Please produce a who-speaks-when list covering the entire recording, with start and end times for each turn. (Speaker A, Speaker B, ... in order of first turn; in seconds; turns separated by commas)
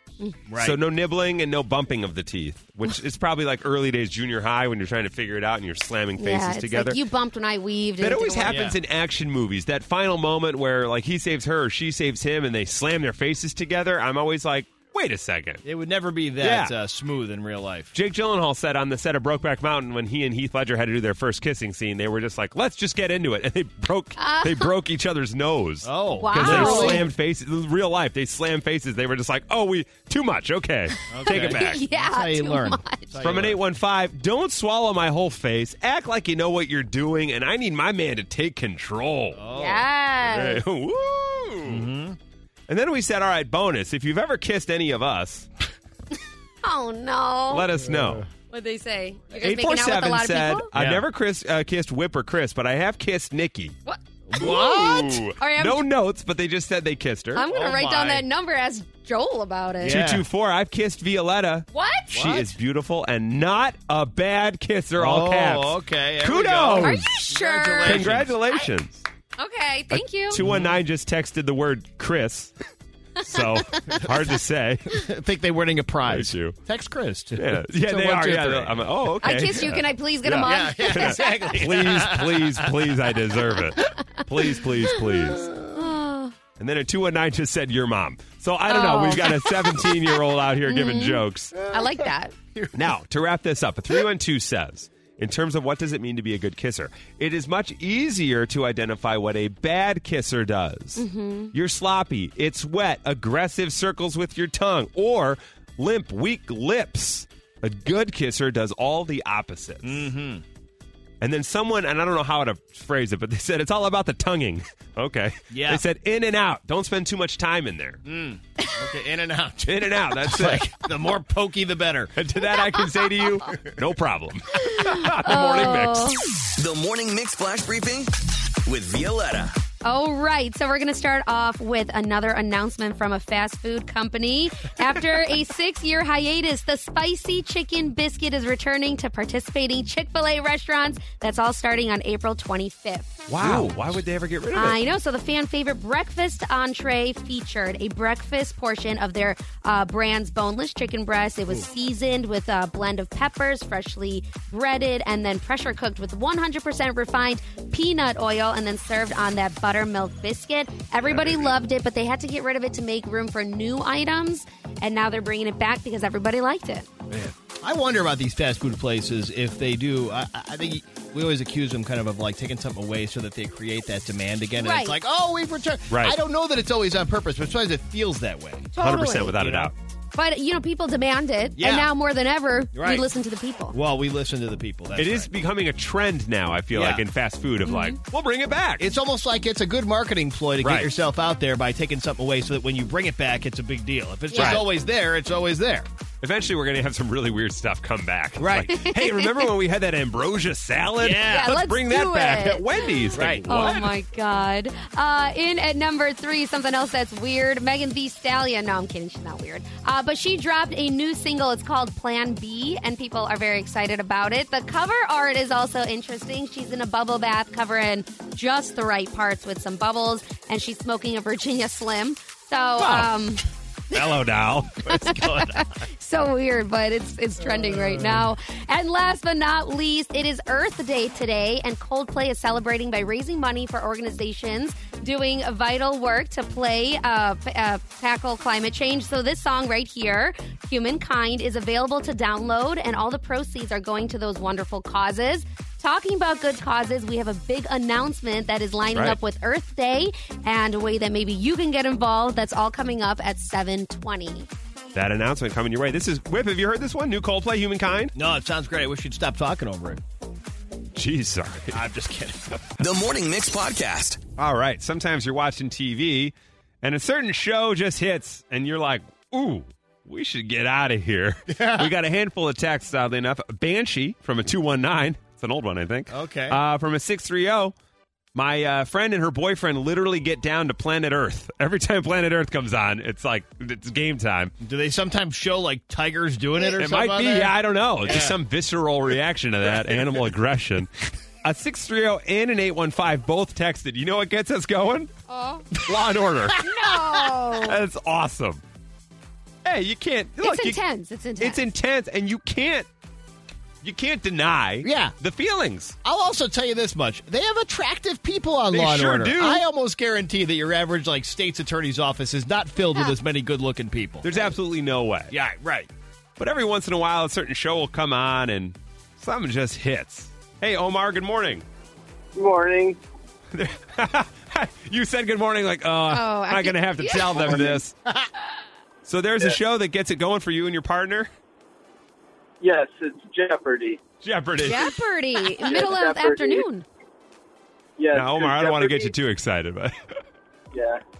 Speaker A: 0.5-0.8, Speaker B: 0.6-7.0, Speaker C: 6.2-8.6, Speaker B: 8.0-15.6, Speaker A: 8.4-8.8, Speaker A: 15.6-17.9, Speaker B: 16.4-16.7, Speaker B: 17.9-31.8, Speaker C: 24.1-24.7, Speaker A: 25.8-27.1, Speaker C: 26.2-27.1, Speaker C: 31.0-33.1, Speaker A: 31.1-33.6, Speaker B: 33.2-39.4, Speaker A: 39.3-39.9, Speaker C: 39.5-40.6, Speaker B: 40.2-41.9, Speaker A: 41.6-42.2, Speaker B: 42.7-45.5, Speaker C: 46.6-47.7, Speaker B: 47.5-48.2, Speaker A: 47.9-48.2, Speaker C: 48.5-50.7, Speaker B: 49.3-53.7, Speaker A: 50.7-51.0, Speaker C: 53.9-55.9, Speaker A: 54.3-55.1, Speaker B: 54.3-57.4, Speaker C: 57.3-60.0, Speaker A: 57.4-58.2, Speaker A: 59.8-60.2, Speaker B: 59.9-67.1, Speaker C: 61.7-62.1, Speaker A: 62.1-62.5, Speaker A: 65.0-68.4, Speaker C: 66.8-68.6, Speaker B: 67.8-69.0, Speaker C: 69.4-70.4, Speaker B: 69.9-72.5, Speaker A: 70.4-70.7, Speaker B: 73.2-74.9, Speaker C: 73.3-74.0, Speaker A: 74.9-79.1, Speaker B: 76.1-76.5, Speaker B: 77.3-85.5, Speaker C: 79.2-81.3, Speaker A: 80.2-83.1, Speaker C: 85.6-86.3, Speaker B: 86.6-91.5, Speaker C: 88.7-90.1, Speaker C: 90.6-92.3, Speaker A: 91.7-92.0, Speaker B: 92.7-110.1, Speaker C: 101.0-101.5, Speaker A: 109.8-110.4, Speaker B: 111.2-118.0, Speaker A: 115.5-115.8, Speaker A: 118.0-122.1, Speaker B: 119.7-120.7, Speaker B: 122.2-126.1, Speaker C: 124.5-126.2, Speaker D: 126.6-129.6, Speaker C: 129.8-143.2, Speaker B: 143.3-144.8, Speaker A: 143.4-143.9, Speaker C: 144.5-166.9, Speaker A: 161.1-161.4, Speaker A: 167.4-179.7, Speaker C: 174.6-175.0, Speaker B: 175.9-176.2, Speaker C: 178.7-179.4, Speaker B: 178.8-179.7, Speaker C: 180.1-183.8, Speaker A: 181.6-181.9, Speaker A: 182.7-183.1, Speaker A: 183.7-185.3, Speaker B: 184.9-188.8, Speaker A: 186.7-187.0, Speaker C: 187.7-188.0, Speaker A: 188.8-195.9, Speaker B: 190.6-190.9, Speaker C: 194.3-194.6, Speaker B: 194.3-194.6, Speaker B: 196.2-203.9, Speaker A: 198.4-198.8, Speaker C: 198.8-199.5, Speaker A: 201.0-201.6, Speaker C: 201.2-224.2, Speaker A: 203.1-203.7, Speaker B: 222.8-223.2, Speaker B: 223.9-225.1, Speaker C: 224.9-254.5, Speaker A: 224.9-225.7, Speaker A: 227.5-228.2, Speaker B: 248.9-249.2, Speaker B: 254.9-258.1, Speaker A: 258.1-260.0, Speaker B: 260.9-261.8, Speaker A: 261.7-262.6, Speaker D: 262.8-264.2, Speaker B: 264.4-277.7, Speaker A: 271.5-271.9, Speaker A: 276.1-276.6, Speaker B: 278.3-284.5, Speaker A: 284.6-288.4, Speaker B: 286.7-295.1, Speaker C: 295.3-295.7, Speaker B: 295.8-296.6, Speaker A: 296.4-297.4, Speaker C: 296.6-297.8, Speaker B: 297.6-298.6, Speaker B: 299.6-300.8, Speaker C: 300.4-301.7, Speaker B: 301.4-302.9, Speaker B: 303.8-305.9, Speaker A: 304.8-305.1, Speaker A: 306.0-314.5, Speaker B: 308.7-309.6, Speaker B: 314.2-315.3, Speaker A: 315.3-315.9, Speaker B: 316.4-321.6, Speaker E: 322.3-323.0, Speaker B: 323.5-327.9, Speaker C: 326.1-327.5, Speaker E: 327.4-327.8, Speaker B: 329.1-331.3, Speaker E: 332.6-334.0, Speaker B: 334.2-334.9, Speaker C: 334.6-336.8, Speaker E: 335.5-336.6, Speaker E: 338.0-339.1, Speaker B: 338.1-339.9, Speaker E: 340.7-341.0